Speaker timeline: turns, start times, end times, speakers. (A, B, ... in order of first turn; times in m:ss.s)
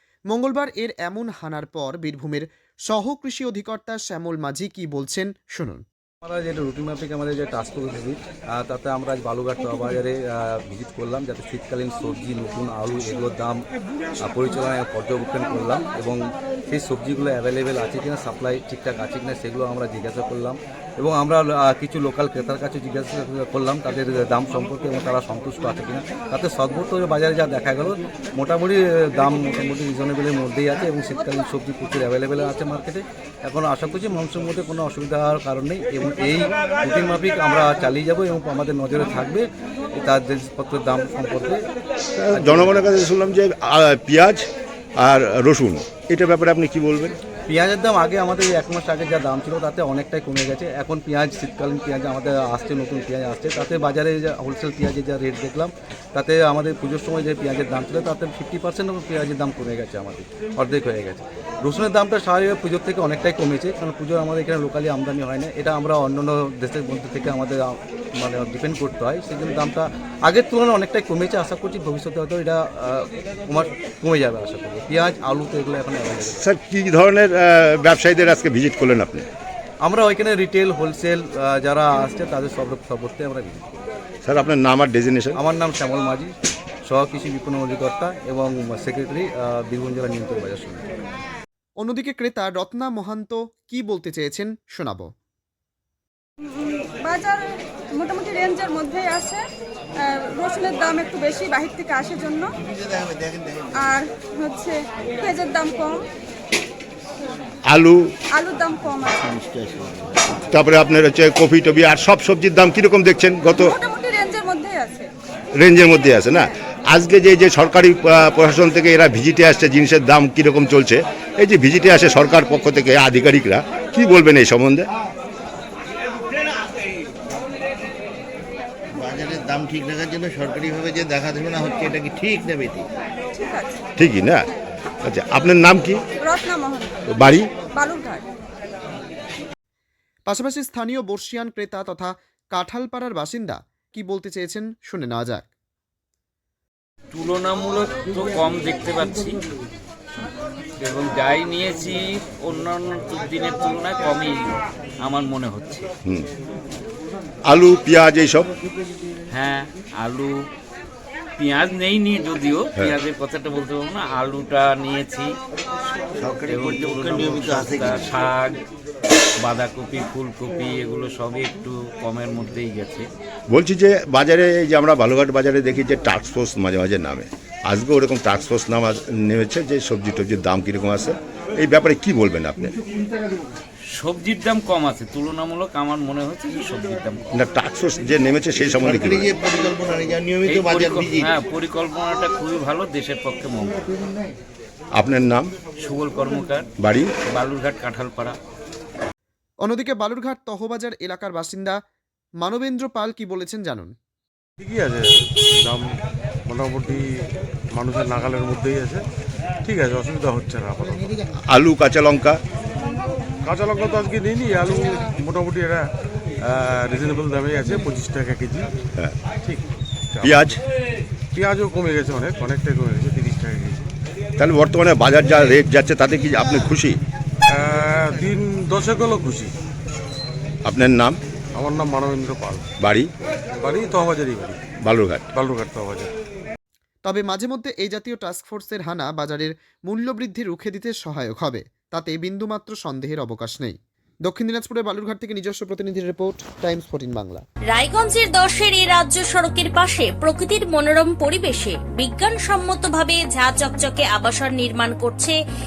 0:00.3-0:05.8 A
0:06.2-0:13.6 B
0:14.2-0:41.6 B
0:42.2-0:44.4 C
0:42.3-0:42.9 B
0:45.0-0:47.2 C
0:47.5-1:16.4 B
1:16.4-1:19.2 C
1:19.8-1:23.8 B
1:24.2-1:25.4 C
1:25.4-1:26.3 B
1:26.8-1:30.8 B
1:31.8-1:35.1 A
1:36.5-1:39.4 D
1:40.0-1:42.5 D
1:43.8-1:46.0 D
1:47.6-1:48.1 C
1:48.3-1:49.2 D
1:50.5-1:53.8 C
1:53.6-1:55.1 D
1:55.6-2:04.9 C
2:10.5-2:12.8 E
2:13.3-2:13.8 D
2:14.0-2:14.5 C
2:15.0-2:16.0 C
2:16.2-2:17.0 D
2:17.1-2:17.5 C
2:17.7-2:18.2 D
2:20.2-2:25.5 A
2:27.1-2:29.4 F
2:30.8-2:35.9 F
2:37.5-2:38.5 C
2:39.3-2:40.5 F
2:41.4-2:45.4 F
2:46.2-2:48.6 F
2:49.4-2:53.1 F
2:53.5-3:02.7 C
3:03.9-3:07.2 F
3:07.3-3:09.3 C
3:08.9-3:10.2 E
3:10.4-3:13.9 F
3:14.9-3:15.5 C
3:15.8-3:16.7 F
3:16.8-3:17.1 C
3:17.2-3:18.4 F
3:19.6-3:21.8 A
3:22.4-3:23.9 A
3:24.6-3:25.8 G
3:26.5-3:27.0 G
3:27.7-3:29.0 G
3:29.6-3:31.2 G
3:31.5-3:32.4 C
3:33.4-3:35.8 G
3:36.4-3:38.6 G
3:40.1-3:40.6 G
3:40.2-3:40.6 C
3:41.3-3:43.8 G
3:44.4-3:47.0 C
3:47.6-3:49.5 G
3:50.6-3:51.2 C
3:51.6-3:52.6 G
3:52.8-3:53.1 C
3:53.6-3:54.6 G
3:54.8-3:55.2 C
3:55.3-3:56.1 G
3:57.0-4:07.4 A
4:07.7-4:15.4 H